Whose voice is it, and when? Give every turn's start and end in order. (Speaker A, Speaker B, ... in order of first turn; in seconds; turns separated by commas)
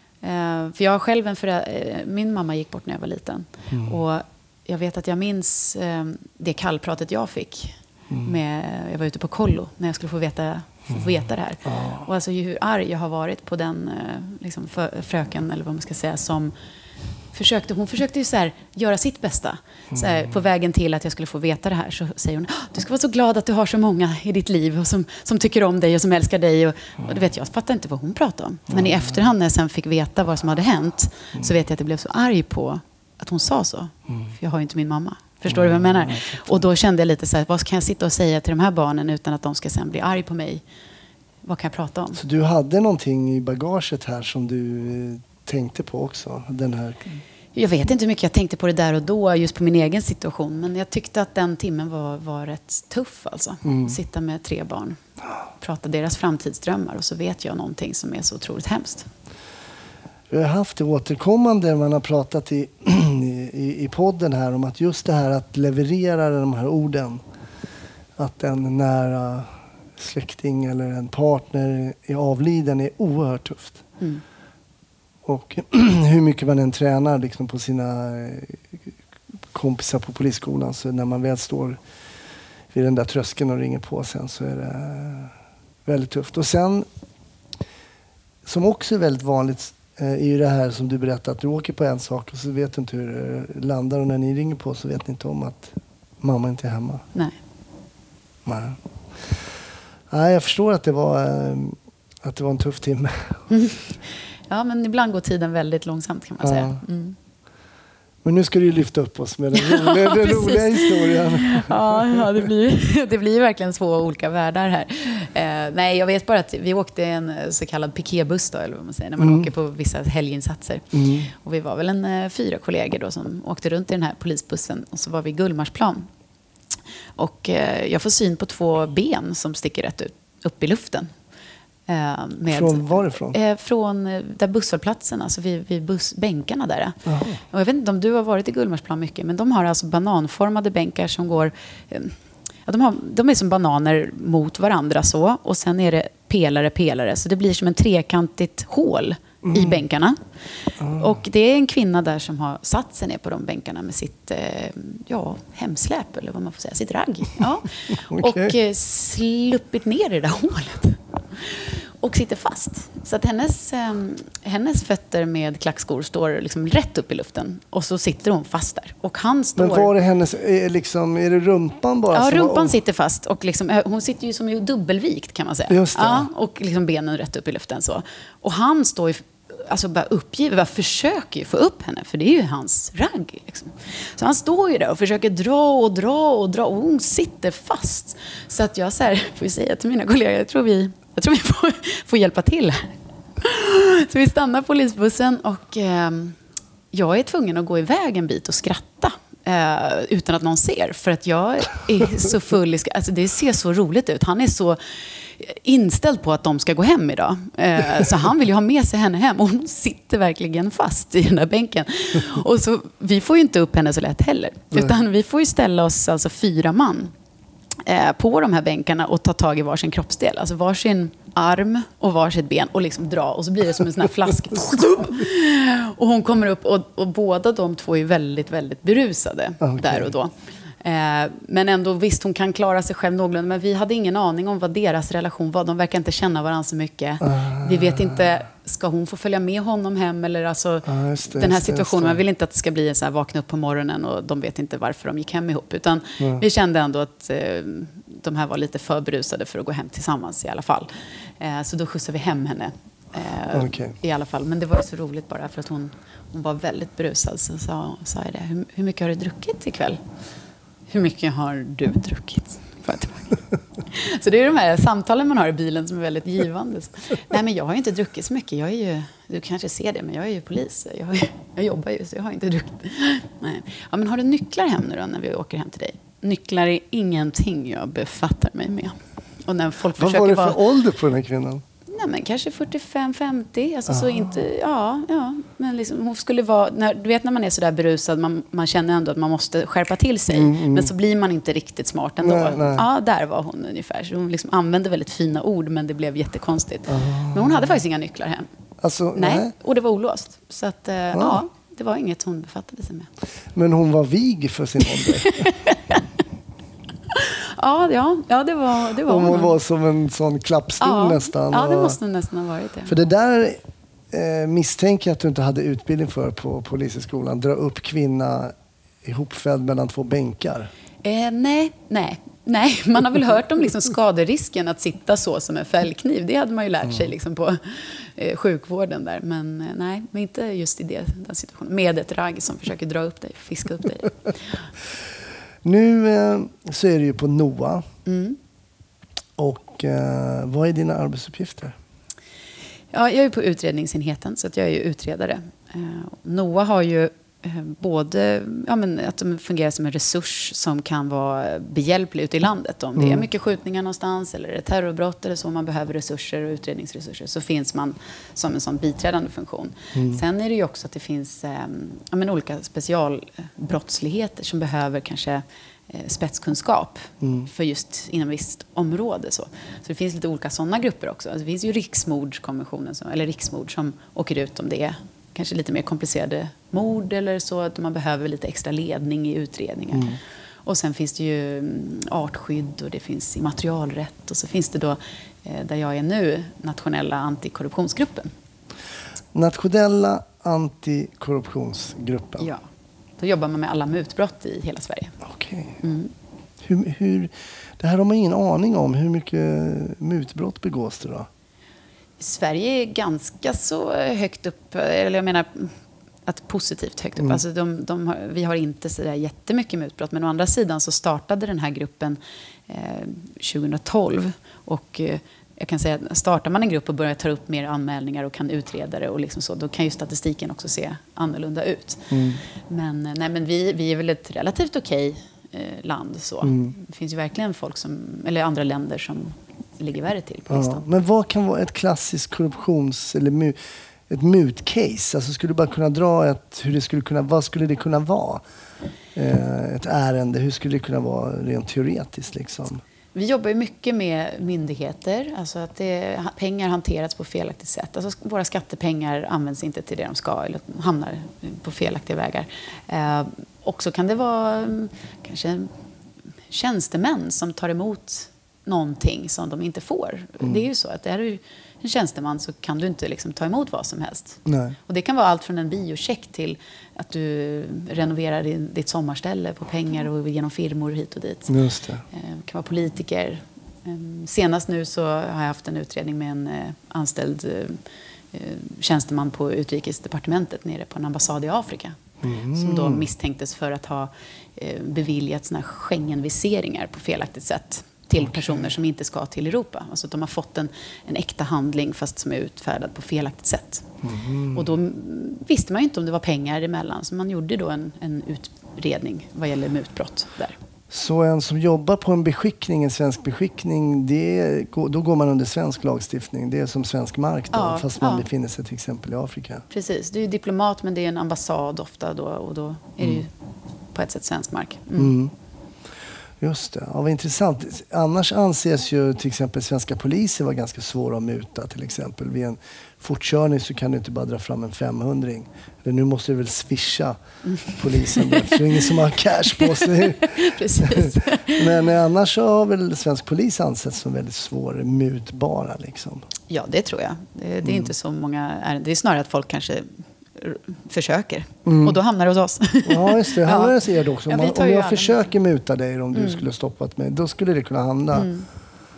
Speaker A: 0.2-16.5, Speaker B: 3.7-4.0, Speaker B: 11.6-12.1, Speaker A: 17.3-40.6, Speaker B: 28.7-29.1, Speaker B: 35.5-36.6, Speaker A: 41.4-42.2, Speaker B: 42.1-47.2, Speaker A: 47.5-55.0, Speaker B: 53.6-54.0, Speaker A: 55.6-59.1, Speaker B: 60.3-67.2, Speaker B: 68.2-73.9, Speaker B: 75.2-78.7, Speaker B: 79.5-81.8, Speaker B: 82.7-85.3, Speaker B: 85.8-86.9, Speaker B: 88.5-97.0, Speaker B: 98.5-98.8, Speaker B: 100.1-103.5, Speaker A: 103.5-103.9, Speaker A: 104.5-107.2, Speaker B: 106.4-106.8, Speaker B: 108.2-112.4, Speaker A: 109.5-126.1, Speaker B: 119.2-119.5, Speaker B: 120.9-121.3, Speaker A: 127.2-131.1, Speaker A: 131.9-150.2, Speaker B: 132.5-133.4, Speaker B: 137.1-137.4, Speaker B: 149.4-149.8, Speaker B: 150.8-151.2, Speaker A: 150.9-169.9, Speaker B: 157.9-158.5, Speaker B: 169.6-172.8, Speaker A: 172.1-196.4, Speaker B: 175.7-176.3, Speaker A: 196.9-217.1, Speaker A: 217.8-260.0, Speaker B: 229.6-230.1, Speaker B: 237.2-238.2, Speaker B: 240.8-242.2, Speaker B: 246.2-246.4, Speaker B: 253.5-253.9, Speaker A: 260.9-280.6, Speaker B: 279.9-281.6, Speaker A: 281.9-298.5, Speaker B: 283.9-284.3, Speaker B: 290.3-290.9, Speaker B: 292.2-292.9, Speaker B: 296.9-297.8, Speaker B: 298.8-299.5, Speaker A: 299.1-303.1, Speaker B: 301.1-301.4, Speaker B: 303.5-305.5, Speaker A: 305.0-306.0, Speaker A: 307.1-309.5, Speaker B: 309.0-312.0, Speaker A: 310.8-312.9, Speaker B: 312.9-320.7, Speaker A: 321.0-334.6, Speaker B: 335.6-337.9, Speaker A: 338.1-338.4, Speaker B: 339.4-341.8, Speaker A: 342.9-388.3, Speaker B: 352.9-353.2, Speaker B: 359.9-360.2, Speaker B: 367.2-367.5, Speaker B: 379.9-380.2, Speaker B: 389.3-392.5, Speaker A: 393.2-395.2, Speaker B: 395.2-395.8, Speaker A: 395.8-396.1, Speaker B: 396.6-401.3, Speaker A: 402.2-405.7, Speaker A: 406.2-422.1, Speaker B: 422.1-422.4, Speaker A: 422.7-430.8, Speaker B: 426.4-426.7, Speaker B: 430.5-433.6, Speaker B: 434.1-438.4, Speaker B: 439.1-442.8, Speaker A: 443.1-455.7, Speaker A: 456.5-471.5, Speaker B: 464.4-464.8, Speaker B: 471.5-472.1, Speaker A: 472.1-477.8, Speaker A: 478.3-482.0, Speaker B: 482.2-483.1, Speaker A: 482.5-493.9, Speaker B: 488.2-488.7, Speaker B: 494.0-494.7, Speaker A: 494.5-500.6, Speaker B: 500.9-509.6, Speaker A: 507.5-508.2, Speaker A: 509.7-513.3, Speaker A: 513.9-515.1, Speaker B: 515.0-515.3, Speaker B: 516.4-536.3, Speaker A: 527.4-528.6, Speaker A: 529.6-531.8, Speaker A: 536.5-545.3, Speaker B: 537.6-537.9, Speaker B: 541.6-542.0, Speaker B: 542.8-548.3, Speaker A: 546.1-546.4, Speaker A: 548.1-548.5